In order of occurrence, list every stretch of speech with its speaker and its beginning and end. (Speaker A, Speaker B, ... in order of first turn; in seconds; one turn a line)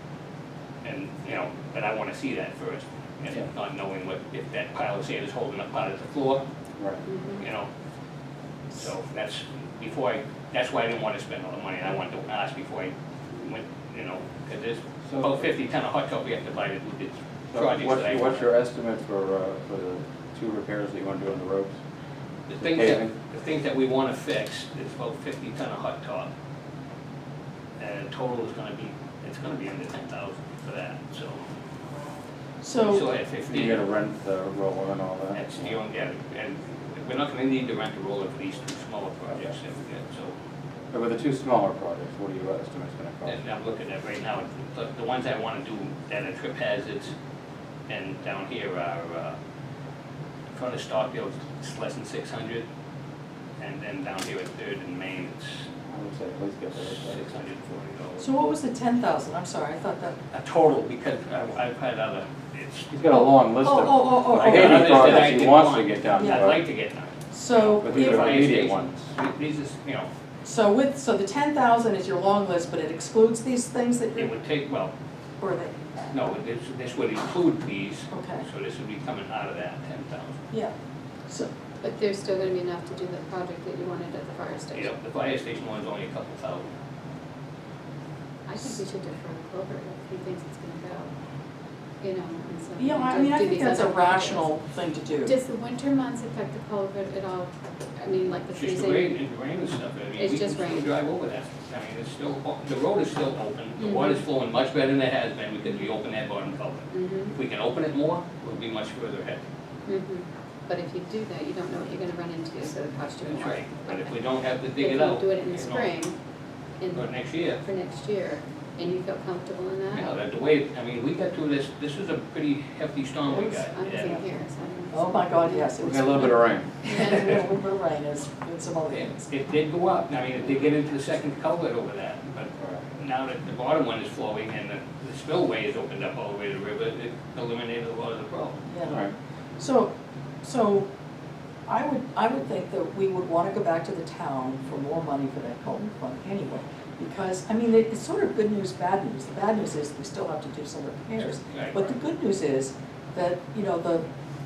Speaker A: 0.8-6.4
Speaker B: 6.8-7.0
Speaker C: 7.0-7.4
Speaker A: 7.4-7.7
Speaker A: 8.7-18.5
Speaker B: 15.1-15.4
Speaker B: 17.5-21.8
Speaker A: 22.5-26.3
Speaker B: 22.6-23.1
Speaker A: 27.8-31.4
Speaker D: 32.6-33.0
Speaker A: 32.8-33.8
Speaker B: 33.5-35.5
Speaker A: 35.3-40.3
Speaker B: 40.9-43.4
Speaker A: 43.2-47.1
Speaker A: 47.9-49.4
Speaker A: 50.5-52.6
Speaker A: 53.6-55.6
Speaker B: 55.9-57.2
Speaker A: 56.8-58.2
Speaker D: 58.2-60.1
Speaker A: 60.3-62.9
Speaker B: 62.9-66.6
Speaker D: 63.1-65.4
Speaker A: 64.3-70.1
Speaker D: 66.2-66.5
Speaker D: 67.3-68.6
Speaker B: 67.8-69.0
Speaker D: 70.4-74.3
Speaker A: 74.2-74.9
Speaker D: 75.4-75.7
Speaker A: 76.1-80.3
Speaker D: 78.1-78.4
Speaker C: 81.8-84.9
Speaker A: 84.7-86.7
Speaker C: 88.5-91.1
Speaker C: 92.0-94.5
Speaker D: 92.8-95.3
Speaker C: 95.2-99.2
Speaker A: 98.5-109.4
Speaker C: 100.2-100.9
Speaker C: 103.8-104.2
Speaker C: 106.9-107.3
Speaker C: 109.9-114.1
Speaker A: 113.2-115.9
Speaker C: 114.8-116.1
Speaker C: 116.8-120.1
Speaker A: 116.9-117.6
Speaker A: 119.9-124.2
Speaker C: 123.2-125.7
Speaker D: 124.9-129.3
Speaker B: 125.8-126.7
Speaker C: 126.8-127.3
Speaker A: 128.9-138.6
Speaker D: 138.7-139.0
Speaker B: 138.8-139.1
Speaker D: 139.6-139.9
Speaker D: 140.4-140.8
Speaker D: 141.7-154.0
Speaker A: 151.5-151.9